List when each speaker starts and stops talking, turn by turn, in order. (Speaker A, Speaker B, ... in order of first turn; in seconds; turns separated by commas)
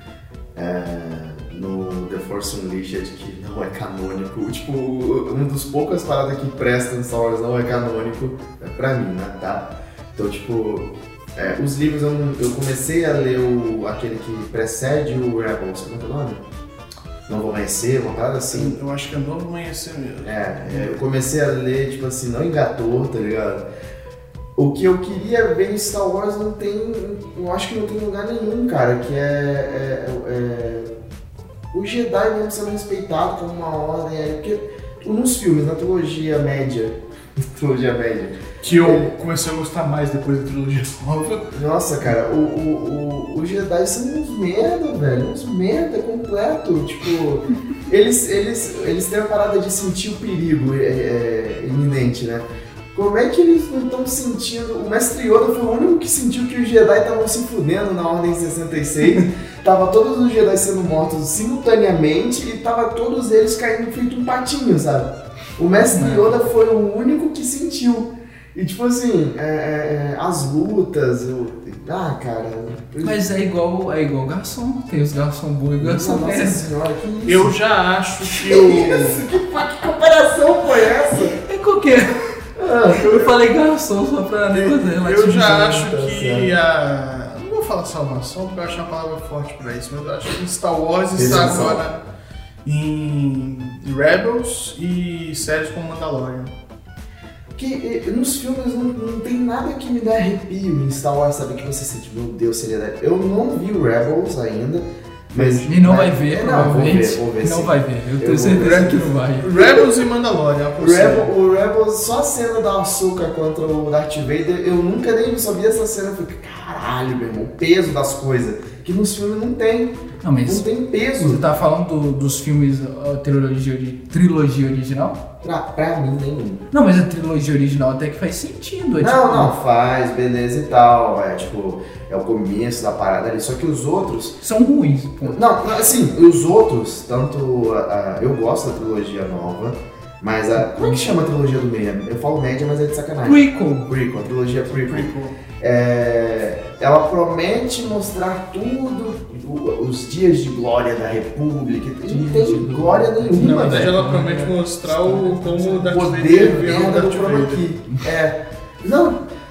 Speaker A: 0.6-16.4, Speaker A: 17.3-18.8, Speaker B: 18.5-21.0, Speaker A: 20.2-23.7, Speaker A: 24.6-30.9, Speaker A: 31.7-39.1, Speaker B: 38.6-41.5, Speaker A: 41.5-73.2, Speaker C: 65.9-66.4, Speaker C: 73.0-76.7, Speaker A: 75.8-77.5, Speaker B: 77.2-79.3, Speaker A: 78.5-81.4, Speaker C: 81.4-82.2, Speaker A: 82.5-83.1, Speaker C: 82.9-85.8, Speaker B: 84.5-92.0, Speaker A: 85.7-86.5, Speaker A: 91.2-91.9, Speaker B: 92.7-96.5, Speaker A: 97.6-109.9, Speaker B: 105.3-105.8, Speaker C: 105.7-109.5, Speaker B: 108.6-111.3, Speaker A: 110.8-121.4, Speaker C: 120.2-125.2, Speaker A: 125.4-126.6, Speaker C: 126.7-129.5, Speaker A: 129.0-134.4, Speaker C: 134.4-135.4, Speaker A: 135.2-153.9, Speaker C: 143.2-143.9, Speaker B: 144.8-145.3, Speaker C: 152.1-155.9, Speaker B: 153.4-157.7, Speaker A: 155.9-159.2